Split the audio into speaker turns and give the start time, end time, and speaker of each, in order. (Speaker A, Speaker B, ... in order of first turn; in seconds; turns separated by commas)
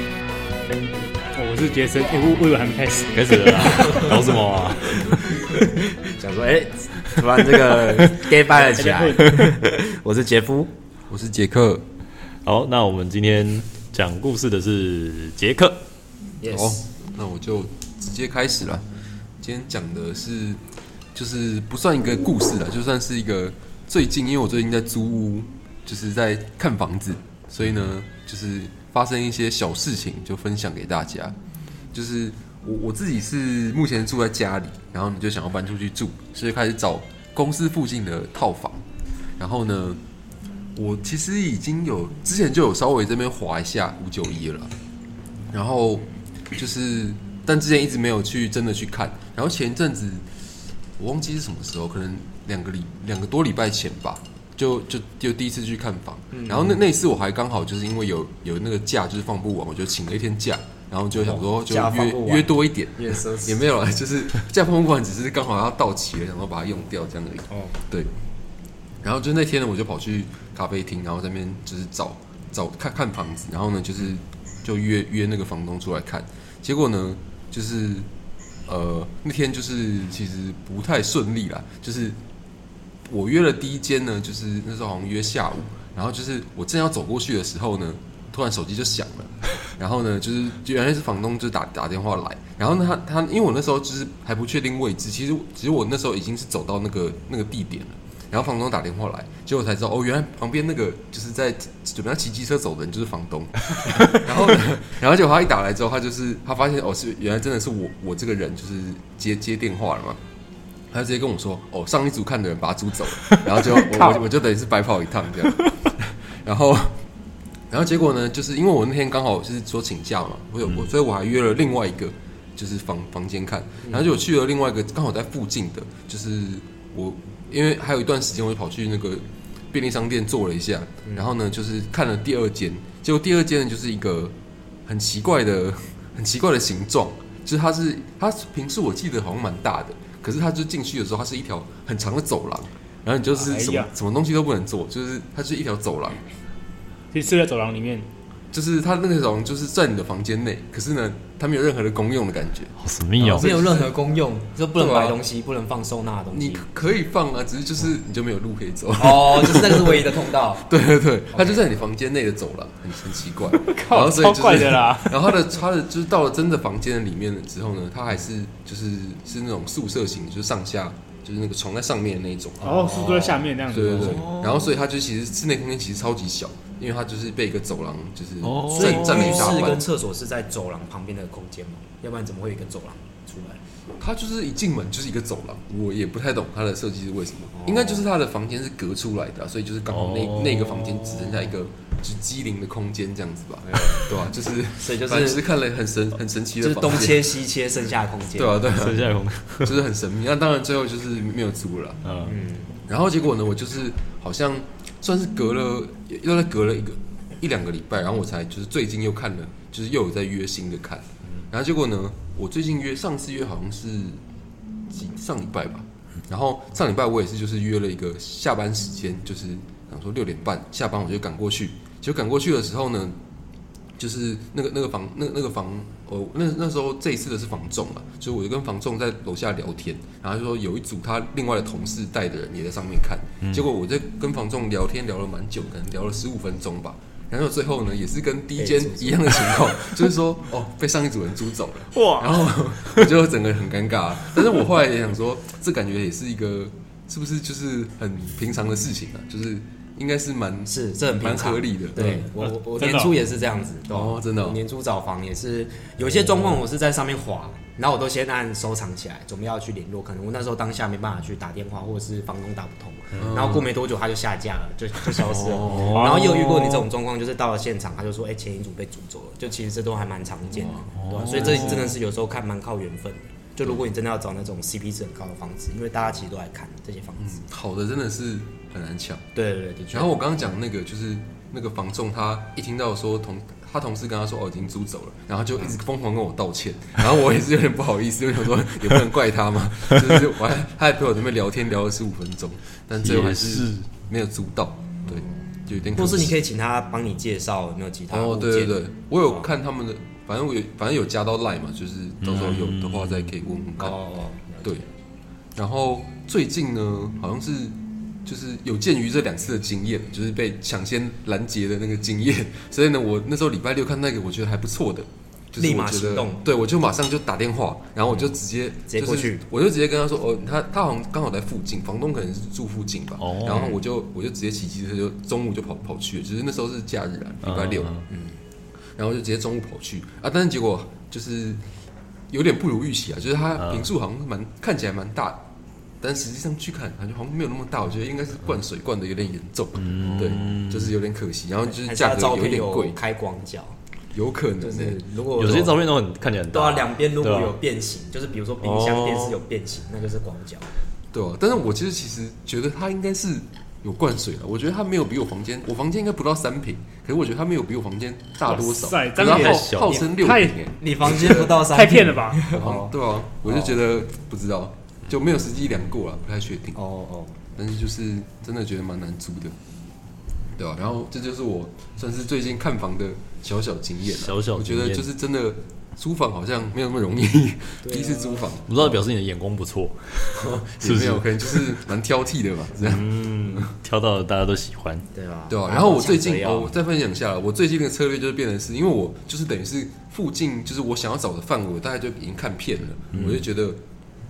Speaker A: 1.3-4.2, Speaker B: 3.1-5.2, Speaker A: 5.0-5.6, Speaker C: 6.1-10.7, Speaker A: 8.5-9.4, Speaker B: 9.2-9.5, Speaker D: 11.1-11.8, Speaker B: 12.4-15.8, Speaker C: 16.4-16.8, Speaker D: 16.5-18.8, Speaker D: 19.4-20.6, Speaker D: 21.1-31.4, Speaker D: 31.9-38.8, Speaker D: 39.4-40.0, Speaker D: 40.7-44.7, Speaker D: 45.5-50.3, Speaker D: 51.0-68.1, Speaker C: 56.3-56.8, Speaker C: 61.2-63.6, Speaker C: 67.5-67.7, Speaker D: 69.0-78.1, Speaker D: 78.7-82.2, Speaker D: 83.0-110.2, Speaker D: 110.9-117.0, Speaker A: 113.3-114.2, Speaker D: 117.7-134.3, Speaker D: 134.8-146.2, Speaker A: 143.3-143.9, Speaker A: 147.1-148.1, Speaker D: 148.5-153.9, Speaker B: 152.8-153.5, Speaker C: 153.3-156.7, Speaker D: 154.7-155.2, Speaker D: 156.3-172.9, Speaker C: 159.0-160.7, Speaker C: 161.3-161.6, Speaker A: 163.6-165.3, Speaker A: 172.6-174.3, Speaker C: 172.9-173.4, Speaker D: 173.7-179.8, Speaker B: 174.0-174.7, Speaker B: 178.4-179.6, Speaker C: 178.7-183.6, Speaker D: 184.0-197.4, Speaker C: 187.5-188.0, Speaker B: 189.9-191.4, Speaker C: 193.6-194.2, Speaker C: 194.8-195.4, Speaker C: 196.6-198.6, Speaker D: 198.3-202.0, Speaker B: 198.7-199.8, Speaker B: 202.0-202.3, Speaker C: 202.2-202.7, Speaker D: 202.9-214.2, Speaker D: 214.9-223.2, Speaker D: 224.0-252.2, Speaker C: 238.6-239.4, Speaker B: 241.9-243.1, Speaker C: 250.7-277.4, Speaker A: 252.8-253.1, Speaker D: 253.9-254.6, Speaker D: 263.2-263.7, Speaker D: 265.2-265.9, Speaker B: 265.6-266.4, Speaker A: 265.8-266.9, Speaker B: 270.9-271.9, Speaker D: 271.2-271.9, Speaker D: 277.2-279.2, Speaker C: 279.3-280.1, Speaker D: 279.9-296.4, Speaker B: 293.0-293.9, Speaker C: 295.1-295.3, Speaker C: 295.9-298.7, Speaker D: 298.1-304.0, Speaker B: 302.2-303.3, Speaker C: 303.8-304.9, Speaker D: 305.6-327.9, Speaker C: 315.6-316.4, Speaker C: 318.8-319.4, Speaker B: 323.2-323.7, Speaker C: 323.5-323.8, Speaker B: 327.4-328.0, Speaker C: 328.1-328.4, Speaker D: 328.9-331.6, Speaker D: 332.3-335.4, Speaker B: 333.6-333.9, Speaker D: 336.0-343.0, Speaker B: 339.8-340.9, Speaker C: 341.7-343.8, Speaker D: 344.1-345.0, Speaker C: 344.6-345.8, Speaker B: 345.3-347.6, Speaker C: 346.5-350.7, Speaker B: 348.6-349.4, Speaker D: 351.1-361.6, Speaker A: 358.4-360.7, Speaker B: 359.2-360.0, Speaker C: 359.3-360.1, Speaker C: 360.7-363.8, Speaker A: 361.6-362.6, Speaker D: 362.5-366.8, Speaker C: 366.7-367.4, Speaker D: 367.5-369.6, Speaker D: 370.6-379.0, Speaker B: 374.0-375.1, Speaker C: 377.8-378.5, Speaker B: 378.6-381.7, Speaker D: 380.4-383.7, Speaker B: 382.8-385.0, Speaker C: 385.1-386.8, Speaker D: 385.5-393.8, Speaker B: 393.1-393.4